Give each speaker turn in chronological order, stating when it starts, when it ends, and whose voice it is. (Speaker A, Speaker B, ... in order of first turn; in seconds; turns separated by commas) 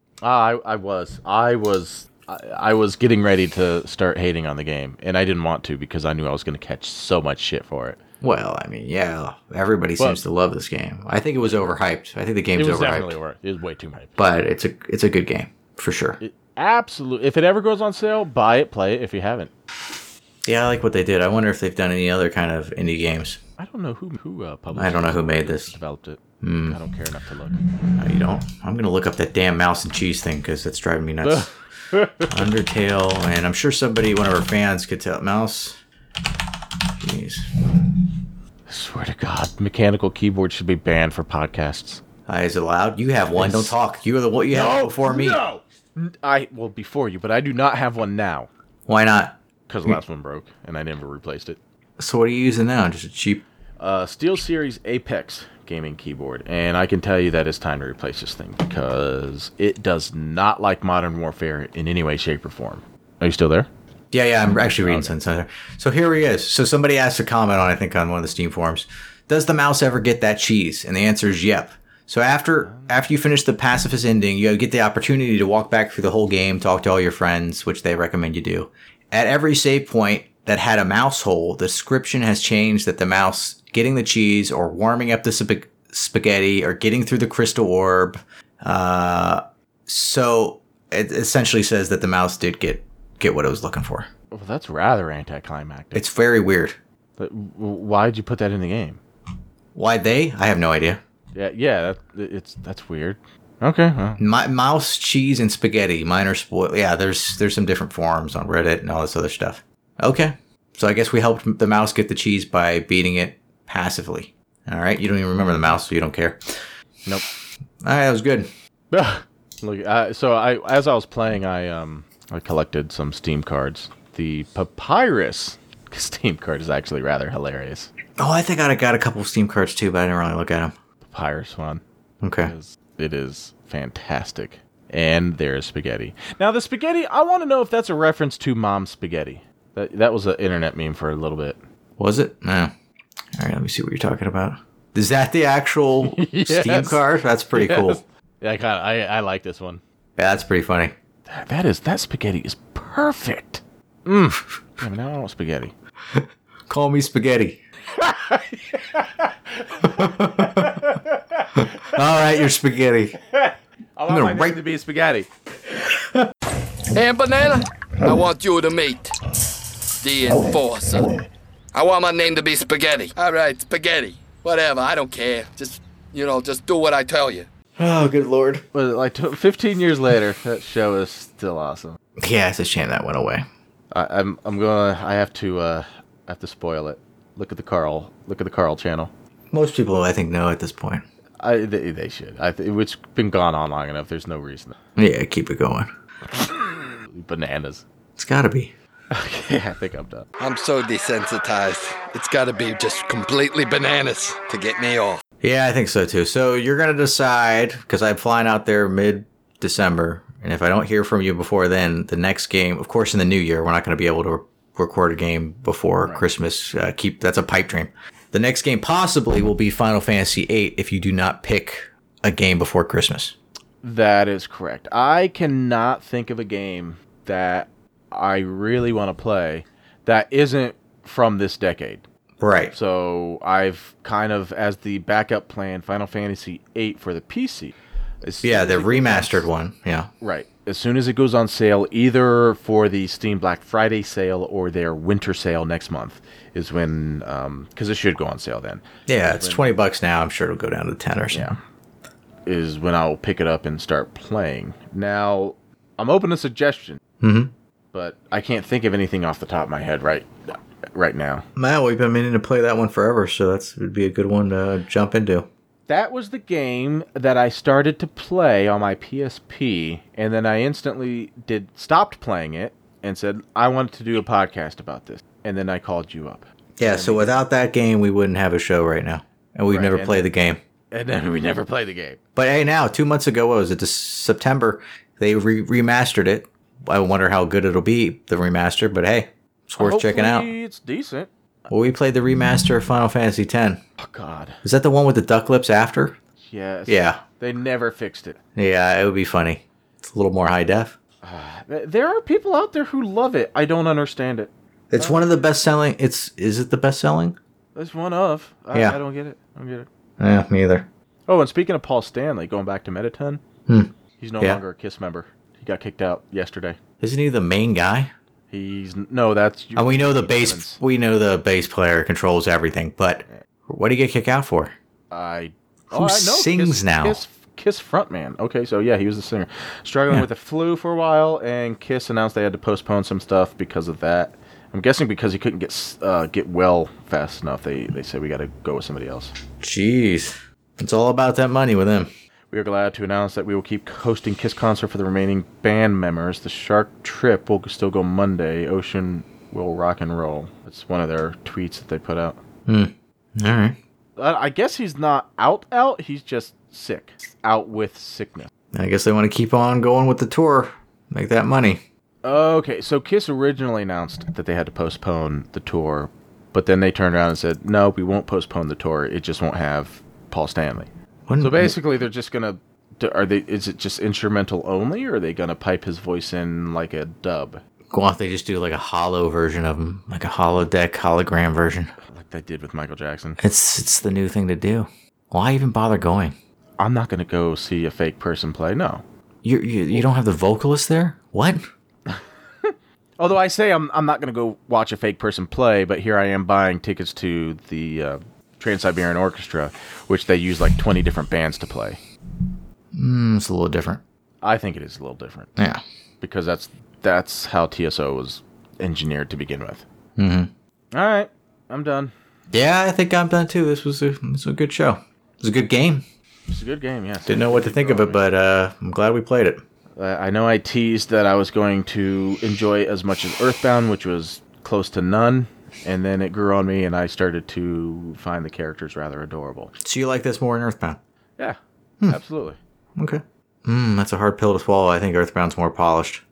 Speaker A: 0.2-8.0, Speaker B: 8.2-13.1, Speaker A: 12.5-14.2, Speaker B: 14.2-16.2, Speaker A: 16.2-19.5, Speaker B: 20.4-23.4, Speaker A: 23.6-27.6, Speaker B: 24.7-25.7, Speaker B: 26.4-26.8, Speaker B: 27.8-31.5, Speaker A: 31.2-32.5, Speaker B: 32.2-35.8, Speaker B: 36.8-37.9, Speaker A: 38.7-42.0, Speaker B: 42.3-45.4, Speaker A: 43.4-43.7, Speaker A: 44.5-48.5, Speaker B: 48.9-49.3, Speaker A: 49.7-51.6, Speaker B: 52.0-53.4, Speaker A: 53.8-63.7, Speaker B: 64.1-94.1, Speaker A: 64.8-65.1, Speaker A: 72.6-73.0, Speaker A: 94.3-96.0, Speaker B: 95.9-96.8, Speaker A: 97.2-99.0, Speaker B: 99.7-101.0, Speaker A: 101.3-104.2, Speaker B: 104.2-116.6, Speaker B: 117.8-118.5, Speaker A: 118.9-127.9, Speaker B: 128.2-130.7, Speaker A: 131.0-131.8, Speaker B: 132.2-132.5, Speaker A: 132.4-141.6, Speaker B: 142.0-142.7, Speaker B: 143.3-148.0, Speaker A: 146.0-147.0, Speaker A: 147.5-149.8, Speaker B: 150.2-150.9, Speaker A: 151.3-155.7, Speaker B: 156.1-157.6, Speaker A: 158.0-162.0, Speaker B: 159.8-161.0, Speaker B: 161.5-163.2, Speaker A: 163.3-165.3, Speaker B: 164.1-164.6, Speaker C: 166.9-169.2, Speaker C: 169.9-171.2, Speaker C: 171.7-177.5, Speaker B: 177.8-178.6, Speaker A: 178.7-182.0, Speaker B: 182.2-183.4, Speaker A: 183.9-189.1, Speaker B: 189.5-191.0, Speaker A: 191.4-194.7, Speaker B: 194.9-195.9, Speaker A: 196.4-197.8, Speaker B: 198.2-198.7, Speaker A: 199.1-200.3, Speaker C: 200.4-205.2, Speaker B: 205.4-223.3, Speaker A: 223.8-232.0, Speaker B: 232.4-232.7, Speaker A: 232.7-239.5, Speaker B: 238.4-240.1, Speaker A: 240.2-249.7, Speaker B: 249.1-251.5, Speaker A: 251.3-251.6, Speaker A: 252.4-257.0, Speaker B: 257.2-257.5, Speaker A: 257.9-261.4, Speaker B: 261.6-265.5, Speaker A: 265.9-277.4, Speaker B: 276.8-280.6, Speaker A: 279.7-280.2, Speaker A: 280.9-282.2, Speaker B: 282.4-290.5, Speaker A: 289.8-291.3, Speaker B: 291.7-293.8, Speaker A: 294.0-294.6, Speaker B: 294.6-296.2, Speaker A: 296.4-298.4, Speaker B: 296.9-297.2, Speaker B: 298.6-300.9, Speaker A: 301.2-305.3, Speaker B: 304.9-307.4, Speaker A: 307.7-309.9, Speaker B: 308.7-309.0, Speaker B: 310.2-310.9, Speaker A: 311.3-313.4, Speaker B: 313.7-314.6, Speaker A: 314.2-316.8, Speaker B: 317.0-318.1, Speaker A: 318.5-320.8, Speaker B: 319.8-324.7, Speaker A: 325.1-339.3, Speaker B: 325.9-327.2, Speaker B: 339.6-342.1, Speaker A: 342.5-352.4, Speaker B: 352.6-353.8, Speaker A: 354.2-358.5, Speaker B: 358.7-361.8, Speaker A: 362.2-377.6, Speaker B: 371.3-371.7, Speaker B: 377.9-381.9, Speaker A: 382.1-383.4, Speaker B: 383.4-386.3, Speaker A: 386.8-389.0, Speaker B: 389.4-391.6, Speaker A: 392.1-402.0, Speaker B: 402.9-404.0, Speaker A: 404.4-405.5, Speaker B: 405.6-405.8, Speaker A: 406.2-409.8, Speaker B: 410.2-410.5, Speaker A: 410.9-412.1, Speaker B: 412.5-416.0, Speaker A: 416.5-418.2, Speaker B: 417.3-419.6, Speaker A: 419.9-429.7, Speaker B: 429.8-431.0, Speaker A: 431.4-432.6, Speaker B: 433.0-436.2